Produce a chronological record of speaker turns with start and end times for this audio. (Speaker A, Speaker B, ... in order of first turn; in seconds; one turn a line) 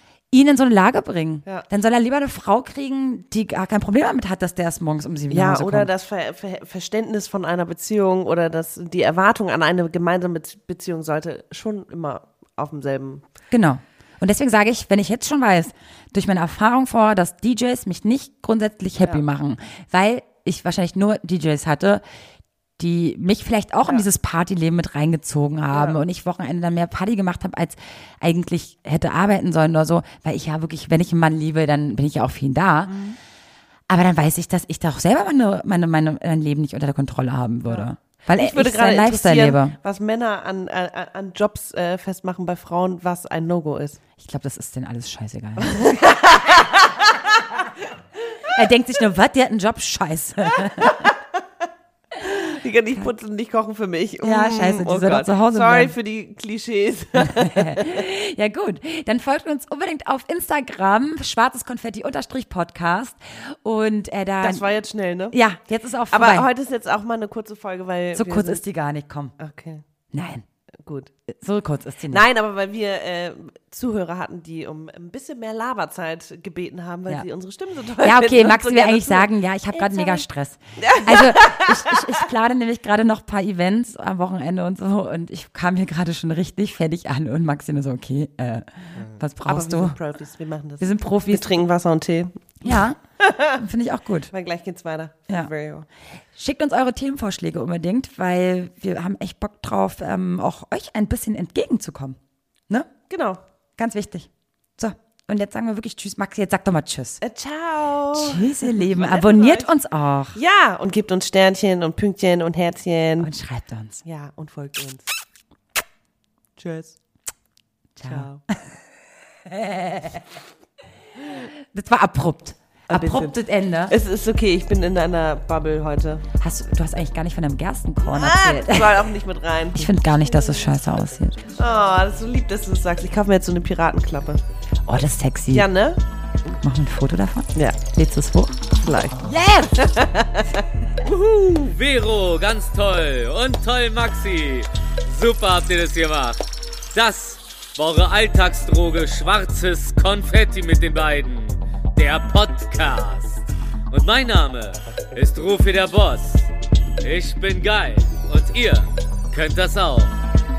Speaker A: 0.3-5.9
Speaker B: 5.3-13.2
Speaker A: 13.5-22.0
Speaker A: 22.8-33.0
Speaker B: 25.7-26.0
Speaker B: 32.9-33.2
Speaker A: 33.9-39.8
Speaker B: 37.7-44.0
Speaker A: 44.2-46.1
Speaker B: 45.6-47.7
Speaker A: 48.5-51.1
Speaker B: 50.6-51.4
Speaker B: 52.2-58.0
Speaker A: 54.2-55.9
Speaker A: 57.2-64.6
Speaker B: 64.4-65.3
Speaker A: 65.3-66.5
Speaker B: 66.1-68.6
Speaker A: 68.1-69.3
Speaker B: 69.4-69.8
Speaker A: 70.1-70.4
Speaker B: 70.8-71.1
Speaker A: 71.3-72.2
Speaker B: 72.1-80.2
Speaker A: 78.0-90.0
Speaker B: 80.8-82.2
Speaker B: 89.0-93.6
Speaker A: 90.8-91.5
Speaker A: 92.6-94.3
Speaker B: 94.3-95.9
Speaker A: 96.3-102.2
Speaker B: 103.1-103.4
Speaker A: 103.8-107.2
Speaker B: 107.2-109.7
Speaker A: 108.1-110.4
Speaker B: 110.3-113.3
Speaker A: 113.2-114.0
Speaker B: 114.0-115.1
Speaker B: 116.6-117.0
Speaker A: 118.0-118.7
Speaker B: 118.0-118.4
Speaker A: 119.5-120.2
Speaker A: 121.7-123.9
Speaker B: 122.9-123.4
Speaker B: 123.9-126.2
Speaker A: 126.4-129.1
Speaker B: 128.0-129.9
Speaker A: 129.8-131.5
Speaker B: 131.5-134.4
Speaker A: 134.9-135.7
Speaker B: 135.5-136.0
Speaker A: 136.4-140.0
Speaker B: 138.7-139.2
Speaker B: 139.7-141.6
Speaker C: 141.1-156.5
Speaker C: 157.0-160.1